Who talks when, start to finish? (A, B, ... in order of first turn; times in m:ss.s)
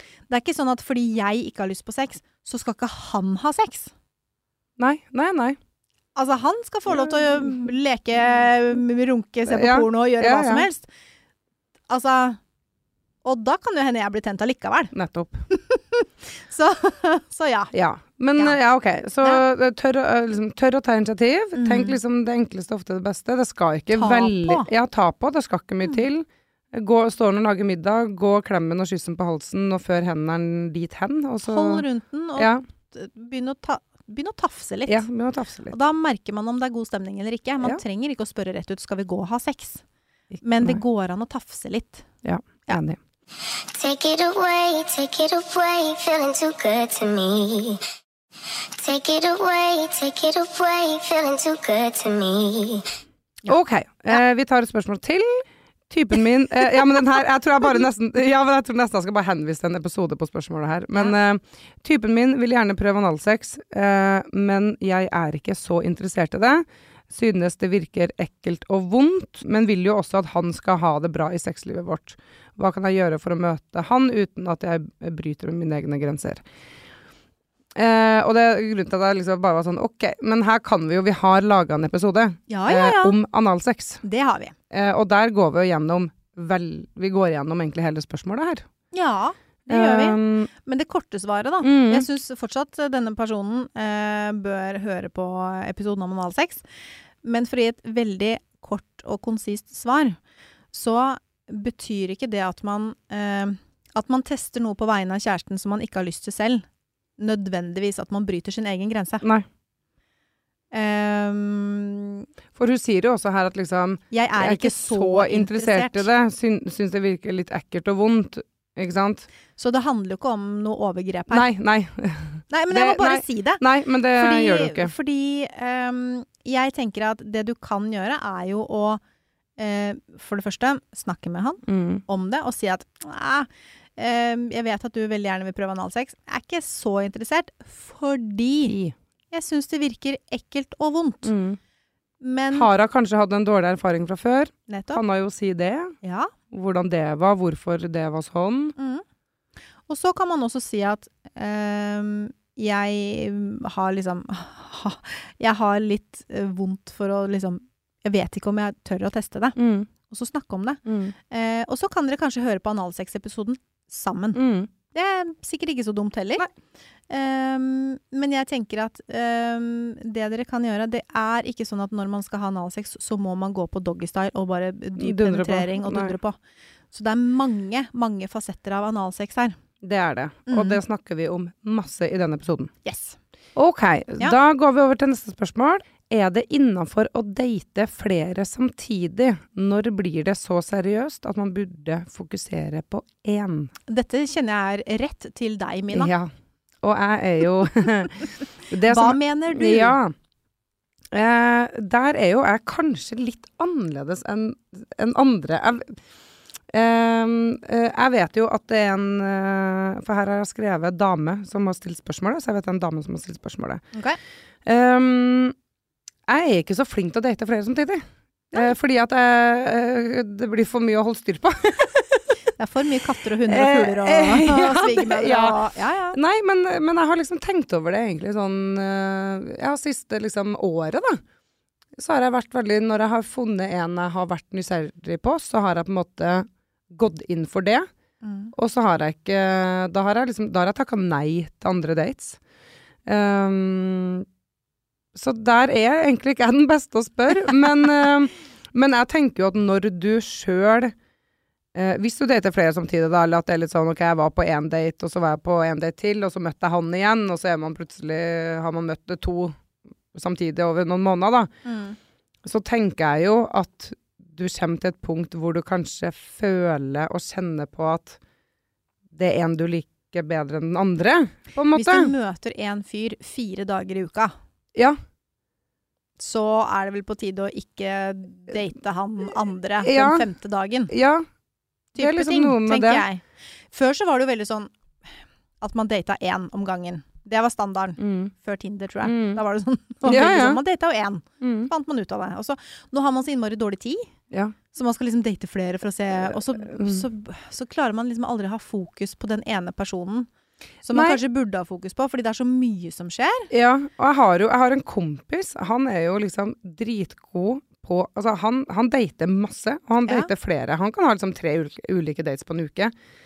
0:00.3-0:03.9 A
0:04.8-0:05.6 B
0:06.2-0:10.9 A
0:07.0-0:07.5 B
0:09.5-0:10.6 B
0:11.9-0:12.4 A
0:13.2-0:14.9 A
0:14.9-0:15.4 B
0:15.5-0:17.7 A
0:17.7-0:31.8 B
0:21.5-0:22.0 A
0:23.9-0:24.7 A
0:31.4-0:35.0 A
0:32.4-0:32.6 B
0:34.9-0:35.7 B
0:35.7-0:39.8 A
0:40.4-0:40.8 B
0:40.4-0:42.0 A
0:42.2-0:43.0 B
0:43.3-0:47.8 C
0:48.4-0:52.9 C
0:53.5-1:16.4 B
1:17.7-1:24.0 B
1:22.5-1:23.2 A
1:24.0-1:24.5 A
1:24.7-1:28.6 B
1:28.9-1:36.6 A
1:29.7-1:30.5 B
1:31.6-1:32.0 B
1:37.2-1:40.2 A
1:40.7-1:46.7 A
1:47.2-1:49.2 A
1:50.7-1:52.3 A
1:52.5-1:59.3 B
1:54.1-1:56.1 A
1:59.6-2:01.5 A
2:01.3-2:04.9 B
2:02.5-2:09.0 A
2:09.6-2:18.7 A
2:11.7-2:12.0 B
2:18.7-2:18.9 B
2:19.3-2:21.3 A
2:21.2-2:21.6 B
2:22.2-2:22.7 A
2:22.5-2:25.9 B
2:24.7-2:25.0 A
2:26.0-2:26.3 A
2:26.5-2:28.7 B
2:28.8-2:29.0 A
2:29.9-2:46.5 A
2:39.6-2:39.9 B
2:40.8-2:41.1 B
2:44.3-2:44.7 B
2:47.1-2:56.4 A
2:55.0-2:56.1 B
2:56.9-2:59.6 A
2:59.8-3:02.7 B
3:00.5-3:00.8 A
3:02.8-3:03.2 A
3:03.6-3:13.7 B
3:13.9-3:16.1 A
3:15.9-3:16.3 B
3:16.8-3:20.1 B
3:18.9-3:20.0 A
3:21.1-3:26.0 B
3:26.7-3:33.8 B
3:34.6-3:35.5 B
3:36.3-3:42.2 B
3:42.6-3:46.2 A
3:43.5-3:45.6 B
3:46.1-3:51.2 B
3:52.0-3:57.9 B
3:58.2-3:58.5 A
3:58.5-4:02.4 B
4:03.0-4:04.2 B
4:05.1-4:10.9 B
4:11.7-4:19.6 B
4:20.1-4:21.5 B
4:21.6-4:22.0 A
4:22.4-4:28.2 B
4:29.1-4:32.1 B
4:31.7-4:34.3 A
4:36.2-4:40.9 A
4:39.8-4:40.2 B
4:40.9-4:41.3 B
4:41.9-4:44.7 A
4:42.0-4:43.0 B
4:45.6-4:54.1 A
4:48.0-4:48.3 B
4:49.0-4:49.4 B
4:50.0-4:50.6 B
4:51.4-4:51.7 B
4:54.3-4:54.6 B
4:54.7-5:00.3 A
4:56.2-4:57.0 B
5:00.8-5:03.5 A
5:00.9-5:01.2 B
5:03.5-5:12.9 B
5:10.0-5:10.3 A